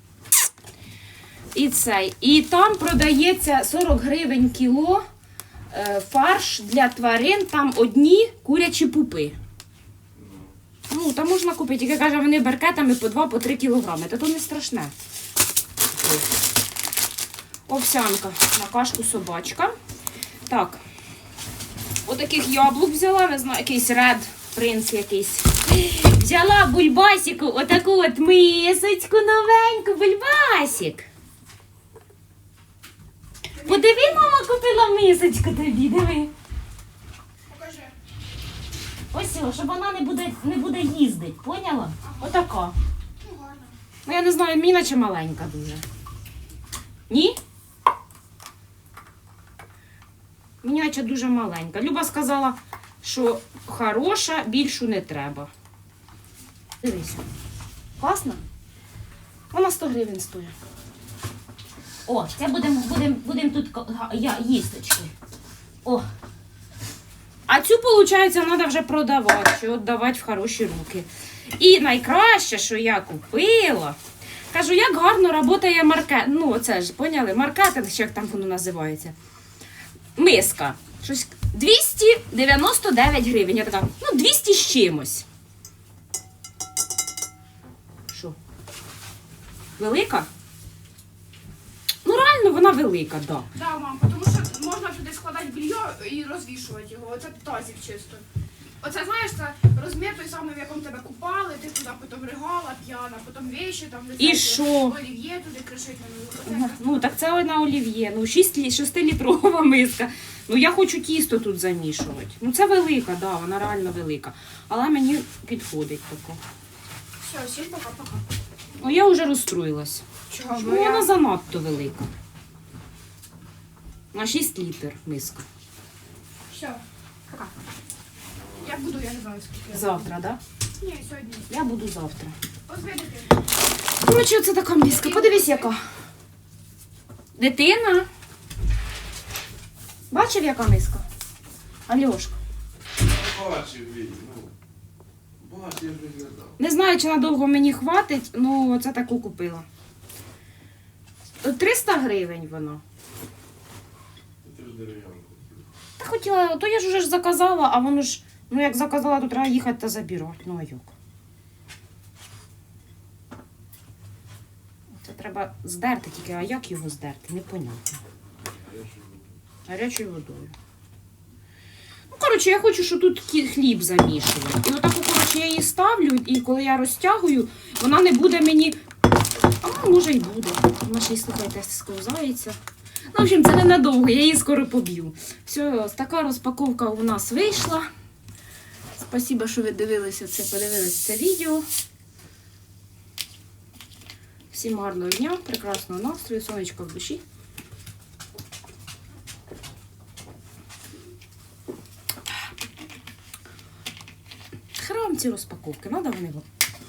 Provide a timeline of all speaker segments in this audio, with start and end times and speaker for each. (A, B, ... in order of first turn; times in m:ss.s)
0:01.5-0:05.0 A
0:05.7-0:09.4 A
0:10.9-0:14.9 A
0:15.9-0:16.2 A
0:17.7-0:19.7 A
0:20.5-0:20.8 A
0:22.0-0:31.1 A
0:33.6-0:36.3 A
0:37.5-0:37.9 B
0:39.1-0:42.7 A
0:43.2-0:43.7 B
0:44.0-0:45.8 A
0:47.1-0:47.4 A
0:50.6-0:55.5 A
0:56.8-0:57.2 A
0:58.0-0:58.4 A
0:59.5-1:00.5 A
1:02.0-1:05.1 A
1:07.5-1:14.0 A
1:14.5-1:19.1 A
1:20.2-1:25.2 A
1:28.1-1:28.4 A
1:29.8-1:30.3 A
1:32.0-1:33.5 A
1:33.5-1:38.2 B
1:38.8-1:47.0 B
1:44.2-1:45.0 A
1:46.4-1:56.4 A
1:57.2-1:58.2 B
1:58.8-2:02.1 A
2:00.3-2:01.1 B
2:04.1-2:05.4 A
2:06.5-2:07.5 B
2:08.6-2:10.0 B
2:09.7-2:10.4 A
2:10.8-2:11.5 B
2:11.5-2:12.4 A
2:12.7-2:13.3 B
2:14.0-2:15.8 A
2:15.0-2:15.7 B
2:17.4-2:18.1 A
2:20.1-2:21.0 A
2:21.9-2:22.4 A
2:23.0-2:24.5 C
2:25.4-2:26.5 C
2:26.6-2:29.7 A
2:31.4-2:32.8 A
2:34.4-2:35.6 C
2:36.0-2:40.9 A
2:45.0-2:48.0 A
2:48.7-2:49.1 C
2:49.6-2:50.5 A
2:52.1-2:58.8 A
2:59.6-3:02.6 A
3:03.1-3:07.9 A
3:08.9-3:11.6 A
3:14.5-3:17.2 A
3:24.8-3:26.4 A